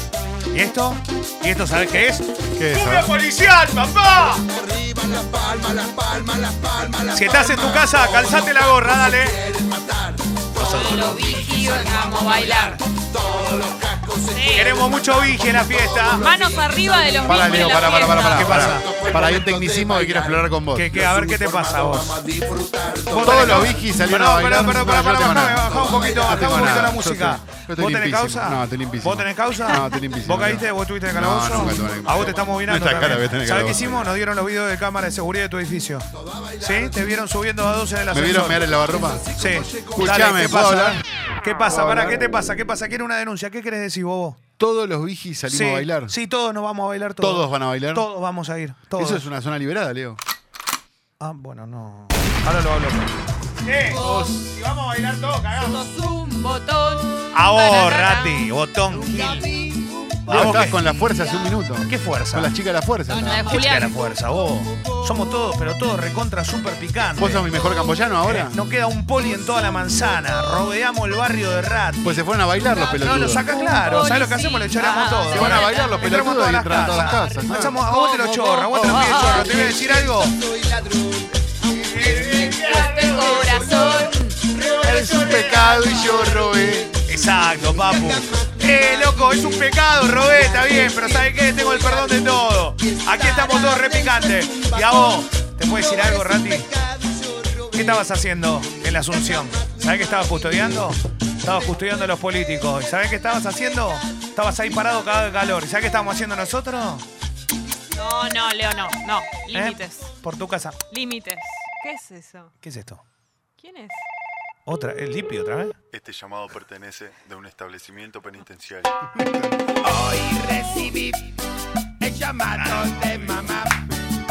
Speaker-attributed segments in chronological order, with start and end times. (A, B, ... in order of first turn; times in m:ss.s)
0:00.5-0:04.4 A
0:02.6-0:03.1 B
0:04.5-0:23.8 C
0:07.1-0:09.4 A
0:10.6-0:12.8 D
0:10.6-0:11.1 A
0:14.3-0:14.8 D
0:14.5-0:16.2 A
0:16.2-0:18.6 D
0:17.2-0:20.9 B
0:18.2-0:19.0 A
0:20.7-0:22.2 A
0:23.1-0:36.1 A
0:23.2-0:34.1 B
0:25.6-0:26.9 C
0:31.8-0:32.4 C
0:36.1-0:37.1 C
0:36.6-0:38.6 A
0:38.1-0:39.2 B
0:38.8-0:40.4 C
0:39.4-0:44.4 A
0:39.9-0:41.0 B
0:41.7-0:42.2 B
0:44.6-0:46.1 B
0:45.5-0:49.2 A
0:47.2-0:48.0 B
0:48.9-0:50.2 B
0:51.2-0:53.1 A
0:53.6-0:55.9 A
0:53.9-0:54.4 D
0:54.0-0:54.4 B
0:55.6-0:58.5 D
0:57.3-0:59.5 A
0:58.9-1:01.2 C
1:00.3-1:00.8 A
1:00.3-1:03.5 B
1:01.9-1:02.5 A
1:03.1-1:04.0 D
1:03.4-1:07.4 A
1:07.2-1:08.6 B
1:08.2-1:12.2 A
1:12.0-1:13.5 B
1:12.7-1:16.1 D
1:12.9-1:20.3 A
1:15.3-1:19.2 B
1:18.4-1:19.7 D
1:18.9-1:38.0 C
1:21.8-1:23.4 A
1:22.6-1:24.4 D
1:24.8-1:26.9 B
1:24.9-1:25.6 A
1:27.1-1:36.7 A
1:37.7-1:47.0 A
1:38.9-1:40.5 C
1:47.9-1:50.1 D
1:49.5-1:50.8 A
1:50.9-1:52.5 D
1:52.6-1:53.0 A
1:53.6-1:54.1 D
1:54.6-1:55.8 A
1:55.9-1:59.0 E
1:59.2-1:59.5 B
1:59.8-2:01.3 C
2:02.0-2:03.8 C
2:02.6-2:03.2 A